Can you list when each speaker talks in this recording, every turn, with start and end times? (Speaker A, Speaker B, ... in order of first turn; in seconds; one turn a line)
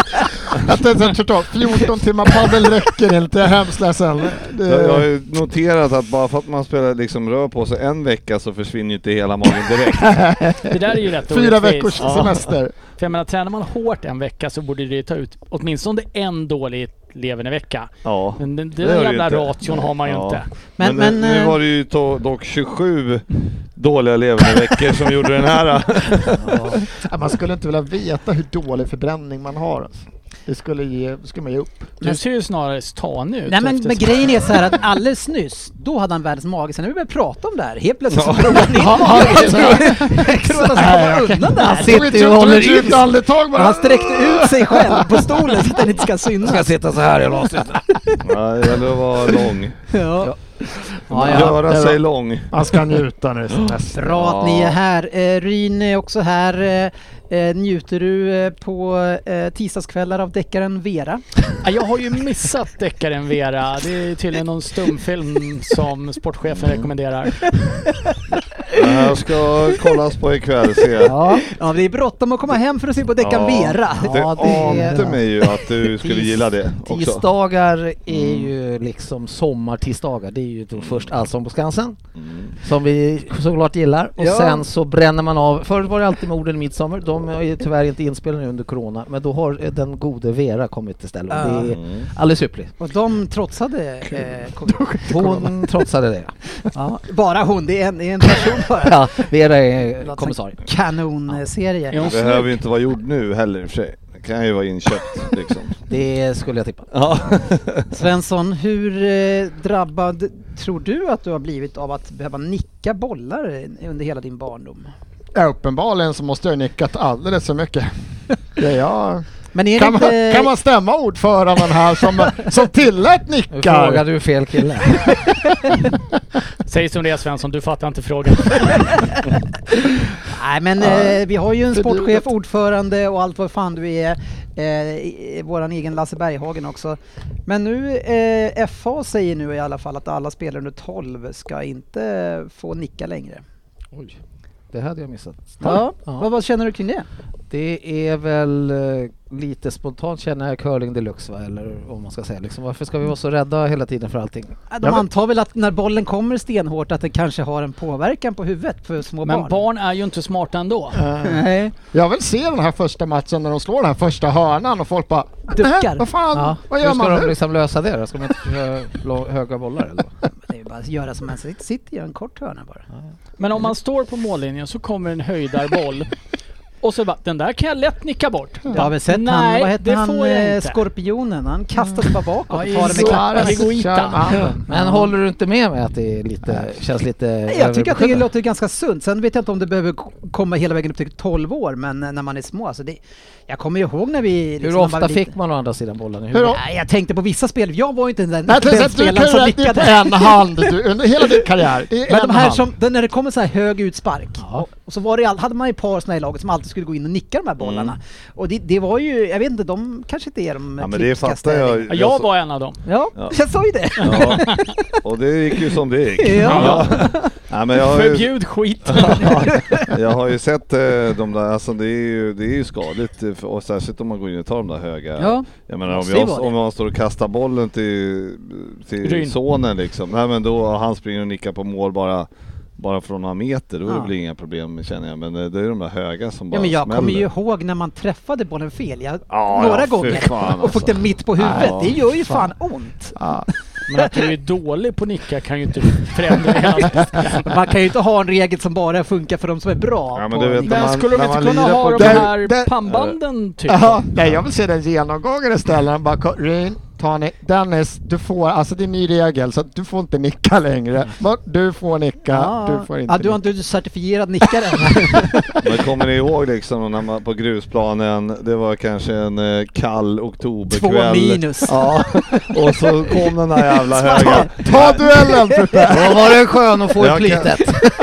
Speaker A: 0.6-5.1
Speaker B: 4.7-10.2
Speaker A: 10.0-10.7
Speaker C: 10.7-12.3
Speaker A: 11.3-12.7
Speaker B: 12.0-12.4
Speaker C: 13.0-20.4
Speaker B: 18.0-26.8
Speaker D: 20.8-21.6
Speaker A: 26.8-32.0
Speaker C: 32.0-34.5
Speaker D: 33.5-42.2
Speaker B: 38.1-38.7
Speaker A: 38.7-45.6
Speaker E: 41.5-43.1
Speaker D: 43.5-46.7
Speaker E: 46.4-48.2
Speaker B: 48.2-49.8
Speaker D: 49.9-50.3
Speaker E: 50.2-51.6
Speaker B: 51.1-52.6
Speaker D: 51.2-51.5
Speaker A: 51.3-54.1
Speaker D: 53.9-61.2
Speaker B: 54.1-54.8
Speaker C: 61.6-67.4
Speaker B: 66.5-66.9
Speaker D: 67.4-68.2
Speaker D: 68.7-69.1
Speaker B: 68.7-71.2
Speaker E: 71.0-71.5
Speaker D: 71.3-76.1
Speaker B: 73.2-77.3
Speaker E: 74.0-75.3
Speaker E: 76.0-82.0
Speaker B: 78.1-78.5
Speaker B: 80.7-81.1
Speaker B: 82.2-82.5
Speaker E: 82.6-92.7
Speaker D: 84.2-84.6
Speaker D: 91.3-91.8
Speaker B: 91.7-92.1
Speaker D: 92.8-95.0
Speaker A: 94.7-95.7
Speaker E: 95.0-96.3
Speaker D: 96.7-99.2
Speaker E: 98.8-100.6
Speaker D: 100.0-102.0
Speaker C: 101.9-102.6
Speaker B: 102.0-105.8
Speaker E: 105.9-106.9
Speaker B: 106.9-107.9
Speaker D: 107.9-114.9
Speaker A: 115.3-117.9
Speaker A: 118.5-119.2
Speaker D: 119.5-120.5
Speaker A: 119.8-124.0
Speaker E: 123.5-125.3
Speaker D: 125.5-125.8
Speaker C: 126.7-129.1
Speaker D: 128.8-129.3
Speaker D: 130.2-143.4
Speaker A: 130.8-131.2
Speaker A: 131.7-132.2
Speaker E: 143.9-144.2
Speaker E: 144.7-146.2
Speaker D: 145.6-147.1
Speaker E: 147.5-154.6
Speaker D: 154.7-159.6
Speaker C: 159.2-161.0
Speaker A: 160.9-167.3
Speaker D: 161.2-161.7
Speaker D: 165.5-166.1
Speaker E: 166.3-170.1
Speaker D: 170.4-172.8
Speaker C: 173.4-176.1
Speaker C: 176.8-180.8
Speaker D: 178.7-183.6
Speaker C: 182.5-184.5
Speaker A: 182.8-184.6
Speaker D: 184.7-185.1
Speaker E: 184.7-188.2
Speaker D: 187.5-195.3
Speaker E: 194.6-196.6
Speaker A: 196.3-196.6
Speaker D: 196.4-200.7
Speaker A: 198.5-202.7
Speaker D: 202.1-211.9
Speaker B: 207.6-207.9
Speaker B: 210.8-212.3
Speaker C: 211.9-212.8
Speaker D: 212.8-215.0
Speaker B: 214.0-218.3
Speaker C: 214.1-214.6
Speaker D: 216.2-217.3
Speaker C: 216.4-216.9
Speaker C: 217.8-219.5
Speaker B: 218.8-237.3
Speaker D: 219.4-219.9
Speaker D: 225.2-226.5
Speaker C: 229.0-229.4
Speaker D: 233.8-234.1
Speaker D: 236.5-243.2
Speaker B: 239.3-242.0
Speaker A: 241.4-241.7
Speaker A: 243.1-243.5
Speaker C: 243.9-247.7
Speaker D: 247.4-251.0
Speaker B: 250.1-252.3
Speaker C: 250.6-254.1
Speaker A: 251.9-252.8
Speaker A: 253.7-263.4
Speaker D: 262.3-265.5
Speaker A: 265.0-265.7
Speaker B: 265.6-275.0
Speaker D: 270.7-275.9
Speaker A: 274.6-276.4
Speaker E: 275.9-277.8
Speaker B: 276.9-277.6